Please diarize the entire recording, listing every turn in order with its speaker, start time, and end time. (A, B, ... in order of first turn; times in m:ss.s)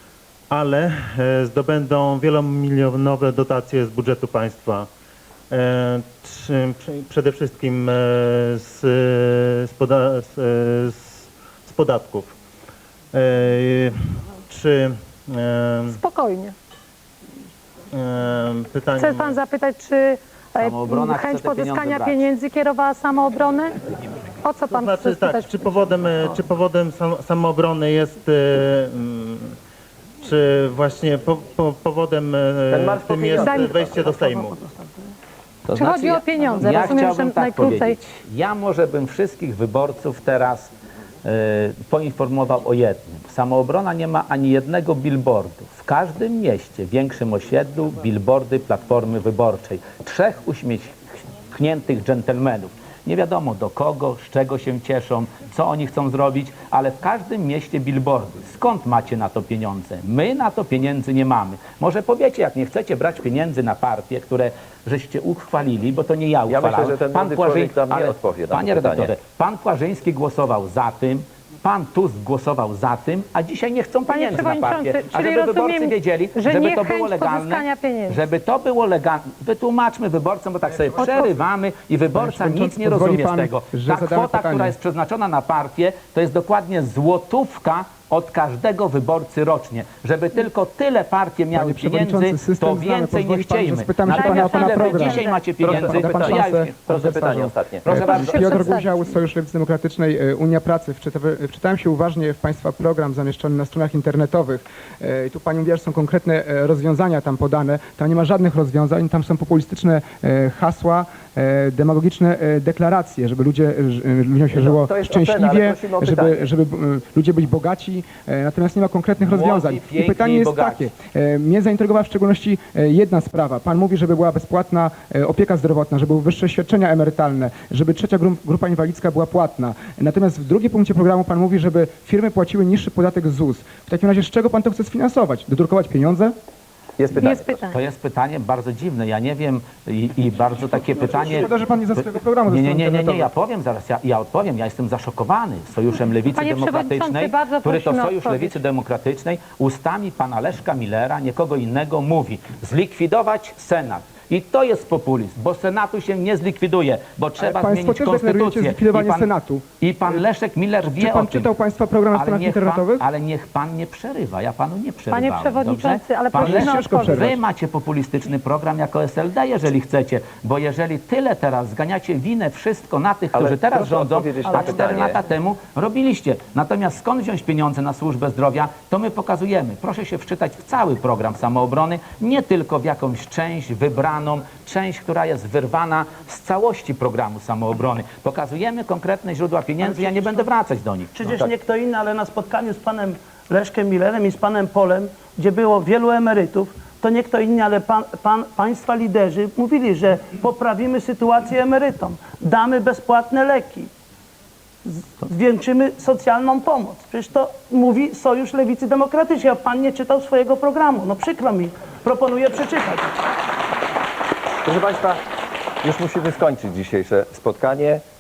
0:00.5-0:04.9 A
0:05.5-0:12.3 A
0:13.1-0:13.9 A
0:14.5-0:16.0 A
0:15.9-0:16.5 B
0:17.9-0:19.4 A
0:18.9-0:23.8 B
0:20.6-0:22.3 C
0:24.4-0:25.6 B
0:24.7-0:29.5 A
0:30.2-0:34.6 A
0:32.7-0:33.4 D
0:33.3-0:33.8 B
0:34.0-0:34.8 E
0:35.6-0:40.7 C
0:35.7-0:38.0 B
0:41.2-0:50.9 C
0:51.5-1:37.3 C
1:06.5-1:09.2 D
1:14.1-1:18.3 B
1:21.0-1:21.3 B
1:22.1-1:24.8 F
1:31.5-2:16.3 F
1:34.1-1:35.5 B
1:35.6-1:37.9 D
1:37.8-1:38.7 C
1:38.0-1:39.1 B
1:54.5-1:56.5 D
1:59.2-2:00.9 C
2:17.0-2:17.6 D
2:17.2-2:17.8 B
2:17.6-2:39.3 C
2:21.1-2:23.3 F
2:26.3-2:28.6 B
2:37.4-2:40.2 F
2:39.8-2:41.5 C
2:40.8-2:43.0 F
2:42.1-3:11.3 C
2:45.1-2:47.3 B
2:46.3-2:47.4 F
2:53.3-2:55.2 D
3:09.8-3:10.5 E
3:11.1-3:23.9 E
3:24.8-3:33.1 E
3:34.6-3:35.2 D
3:35.8-3:38.0 D